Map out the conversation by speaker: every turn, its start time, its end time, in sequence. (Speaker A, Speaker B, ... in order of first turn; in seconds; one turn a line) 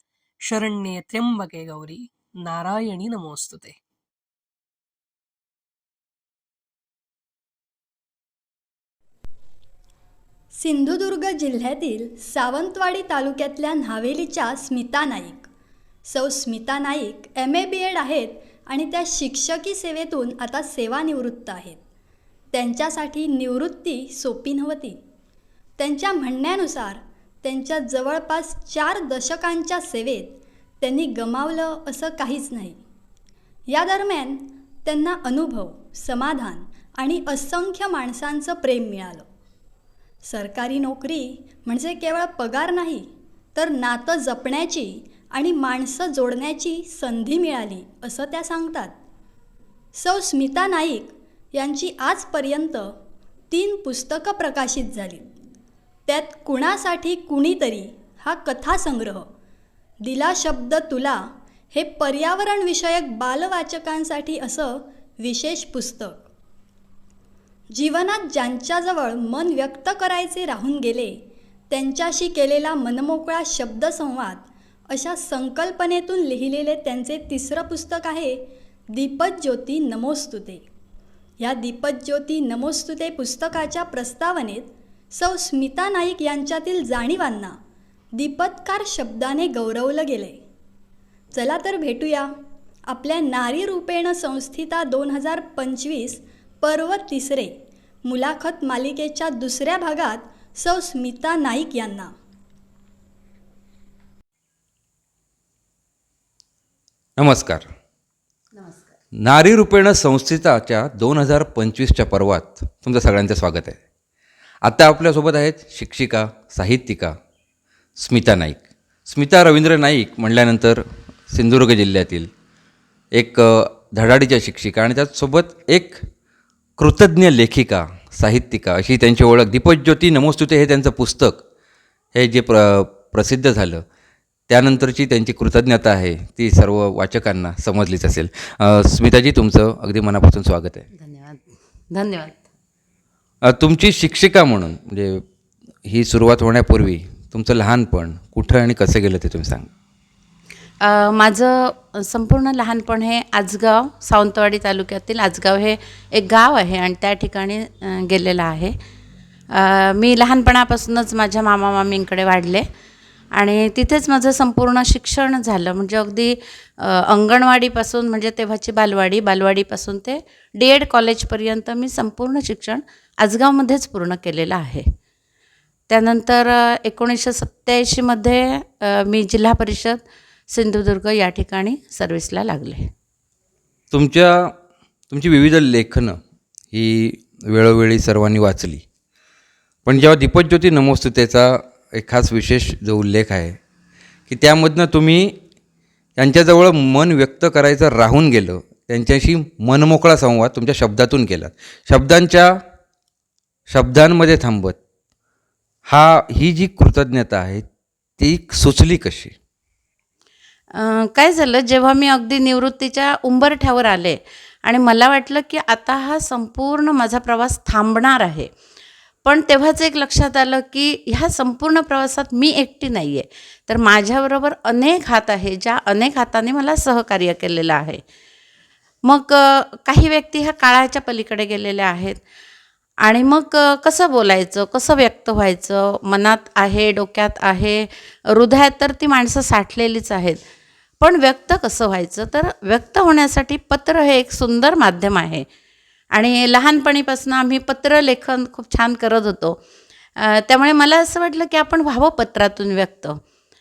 Speaker A: 0.5-3.8
Speaker B: 10.5-15.5
Speaker B: 16.1-21.8
Speaker B: 22.5-25.0
Speaker B: 25.8-32.8
Speaker B: 33.7-39.3
Speaker B: 40.2-48.9
Speaker B: 49.9-52.9
Speaker B: 53.5-55.3
Speaker B: 56.1-59.3
Speaker B: 60.0-61.2
Speaker B: 61.7-66.2
Speaker B: 67.7-71.2
Speaker B: 71.7-80.6
Speaker B: 81.4-87.5
Speaker B: 88.2-90.4
Speaker B: 91.3-92.3
Speaker B: 92.9-97.5
Speaker B: 98.0-102.1
Speaker C: 107.2-107.7
Speaker D: 108.6-108.8
Speaker C: 109.2-113.8
Speaker C: 114.6-117.1
Speaker C: 118.0-122.3
Speaker C: 123.1-126.0
Speaker C: 126.8-131.4
Speaker C: 132.1-133.8
Speaker C: 134.5-140.8
Speaker D: 140.9-142.4
Speaker C: 143.4-145.2
Speaker C: 145.8-149.7
Speaker D: 150.8-158.7
Speaker D: 159.5-162.7
Speaker D: 163.3-174.8
Speaker D: 175.9-182.9
Speaker C: 183.9-184.5
Speaker C: 185.1-186.2
Speaker C: 186.7-188.8
Speaker C: 189.8-193.6
Speaker C: 194.3-195.4
Speaker C: 196.2-202.6
Speaker C: 203.7-204.8
Speaker C: 205.9-207.6
Speaker C: 208.2-209.3
Speaker D: 210.7-218.5
Speaker D: 219.2-228.0
Speaker D: 229.1-232.2
Speaker D: 233.0-240.4
Speaker D: 241.0-245.4
Speaker D: 246.1-249.6
Speaker D: 250.2-253.2